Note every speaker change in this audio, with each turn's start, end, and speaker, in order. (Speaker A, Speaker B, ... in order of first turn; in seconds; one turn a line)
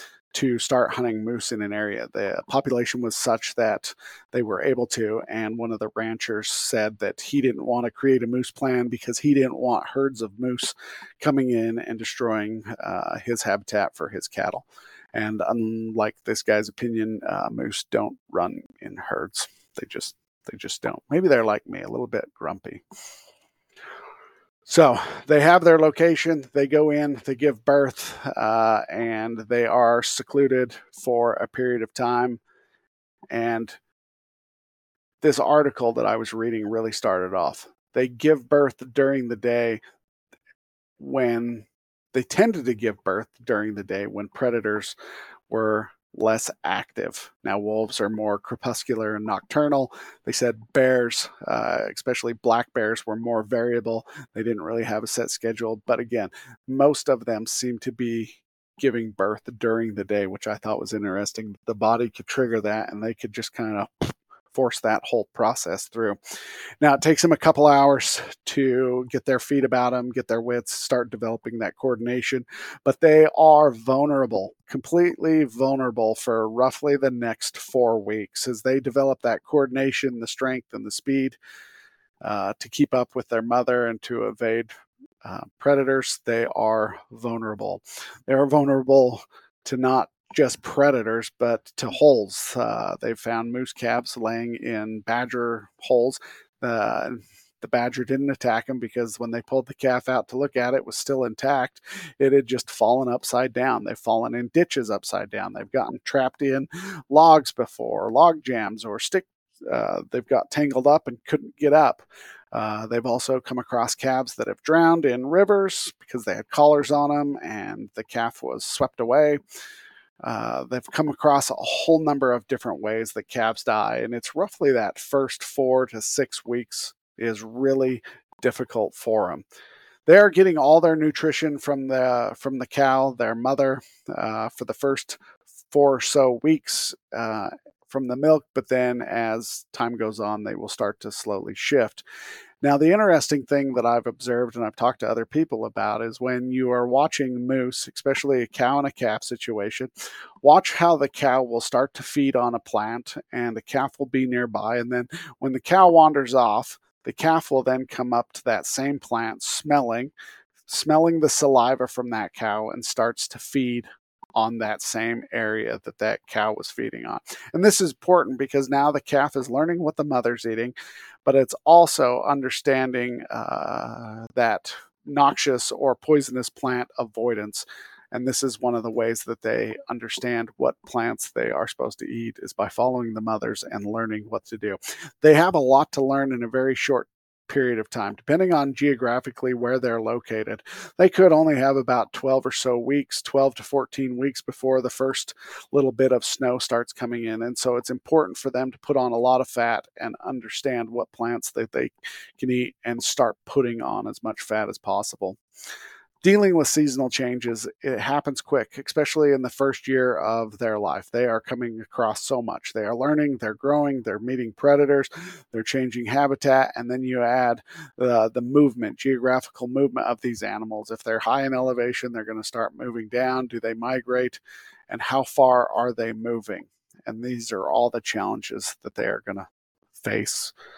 Speaker A: 0.3-22.8
Speaker A: 24.7-32.4
Speaker A: 33.3-33.8
Speaker A: 35.2-39.8
Speaker A: 41.0-45.0
Speaker A: 45.5-66.2
Speaker A: 66.8-81.4
Speaker A: 82.2-84.7
Speaker A: 85.2-119.4
Speaker A: 120.2-129.4
Speaker A: 130.1-142.0
Speaker A: 142.6-149.9
Speaker A: 150.4-160.1
Speaker A: 160.7-170.7
Speaker A: 171.2-205.4
Speaker A: 206.2-230.5